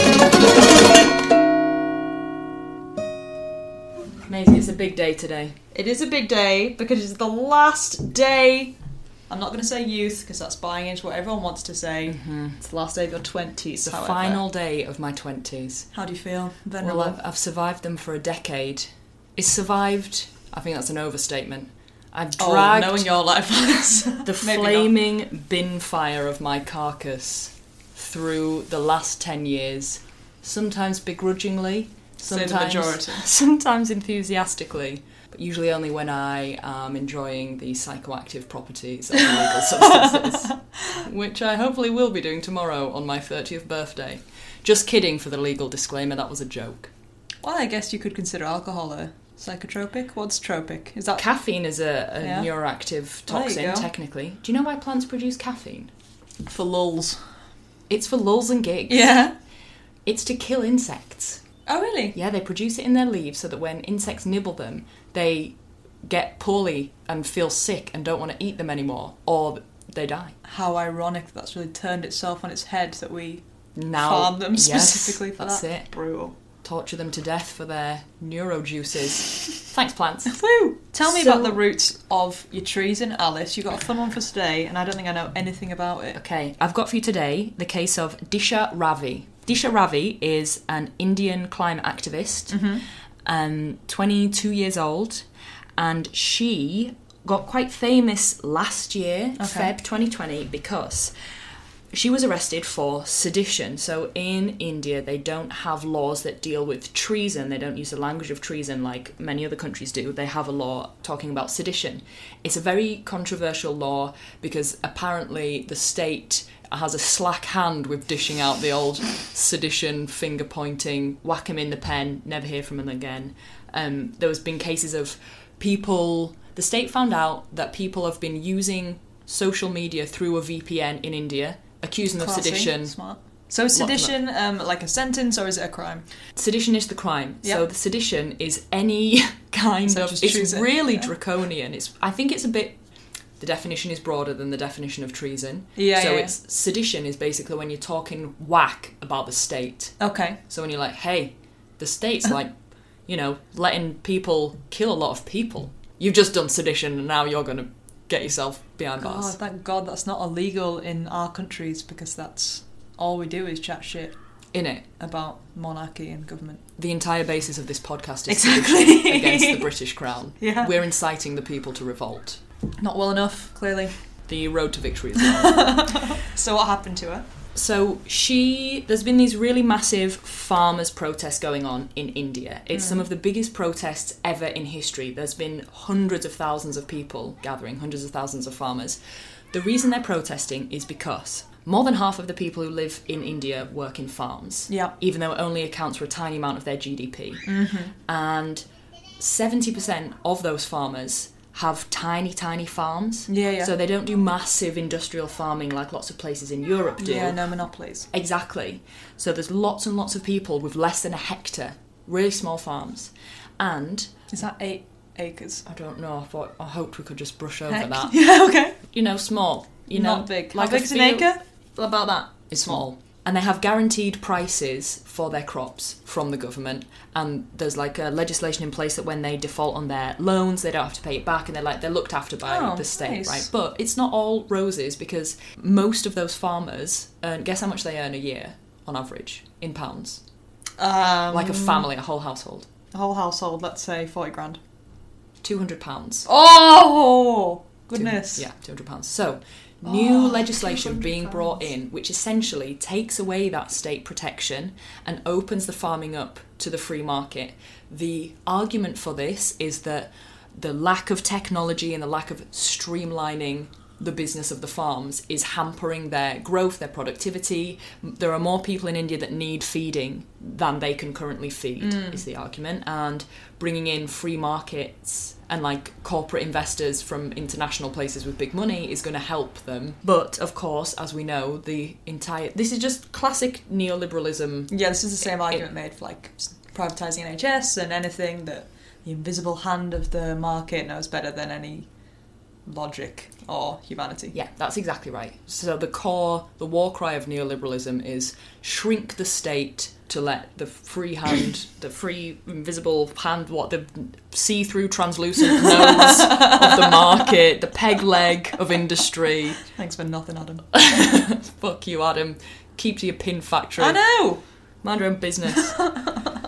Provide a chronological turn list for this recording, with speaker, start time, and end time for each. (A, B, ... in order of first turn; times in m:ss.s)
0:04.2-0:05.6 A
0:05.7-0:08.8 B
0:09.3-0:14.4 B
0:12.1-0:12.6 A
0:13.8-0:15.9 A
0:15.9-0:17.2 B
0:16.8-0:23.1 A
0:22.4-0:24.9 B
0:24.2-0:46.9 A
0:32.2-0:33.3 B
0:39.7-0:41.0 B
0:47.4-0:51.3 B
0:51.2-0:55.9 A
0:52.2-0:52.5 B
0:53.3-0:53.9 B
0:56.5-0:57.2 B
0:57.9-0:59.2 A
0:58.9-0:59.3 B
1:00.0-1:01.4 A
1:01.7-1:02.2 B
1:02.2-1:10.4 A
1:10.4-1:13.4 B
1:13.8-1:15.9 A
1:14.0-1:16.4 B
1:16.6-1:20.4 A
1:20.3-1:26.2 B
1:21.0-1:21.6 A
1:26.1-1:32.7 A
1:32.5-1:32.8 B
1:33.2-1:35.3 A
1:35.8-1:41.1 A
1:39.4-1:39.7 B
1:41.9-2:13.0 A
2:12.2-2:16.0 B
2:13.7-2:14.2 A
2:16.4-2:22.8 A
2:19.9-2:21.1 B
2:23.4-2:30.0 A
2:25.8-2:26.4 B
2:30.0-2:30.4 B
2:30.5-2:32.5 A
2:33.1-2:39.4 A
2:39.0-2:44.1 B
2:44.5-2:44.9 A
2:45.0-2:46.6 B
2:46.8-2:52.4 A
2:48.3-2:49.7 B
2:50.4-2:50.7 B
2:52.8-2:53.9 B
2:54.3-2:55.8 A
2:55.2-2:57.2 B
2:57.5-3:09.0 A
3:02.7-3:03.0 B
3:09.5-3:18.6 A
3:17.5-3:17.9 B
3:19.2-3:27.4 A
3:23.3-3:23.7 B
3:27.0-3:28.1 B
3:28.1-3:34.1 A
3:34.3-3:35.6 B
3:35.7-3:38.1 A
3:37.7-3:38.8 B
3:38.9-4:00.2 A
3:39.9-3:41.4 B
3:52.5-3:53.5 B
4:00.8-4:01.9 B
4:01.3-4:02.7 A
4:02.9-4:04.6 B
4:05.4-4:06.3 A
4:06.3-4:08.5 B
4:07.9-4:44.7 A
4:09.8-4:11.6 B
4:31.8-4:32.2 B
4:44.7-4:51.9 B
4:52.7-4:54.4 B
4:54.3-5:09.6 A
5:06.0-5:07.0 B
5:09.6-5:10.7 B
5:10.7-5:14.0 A
5:13.8-5:14.4 B
5:14.8-5:16.0 A
5:15.5-5:16.3 B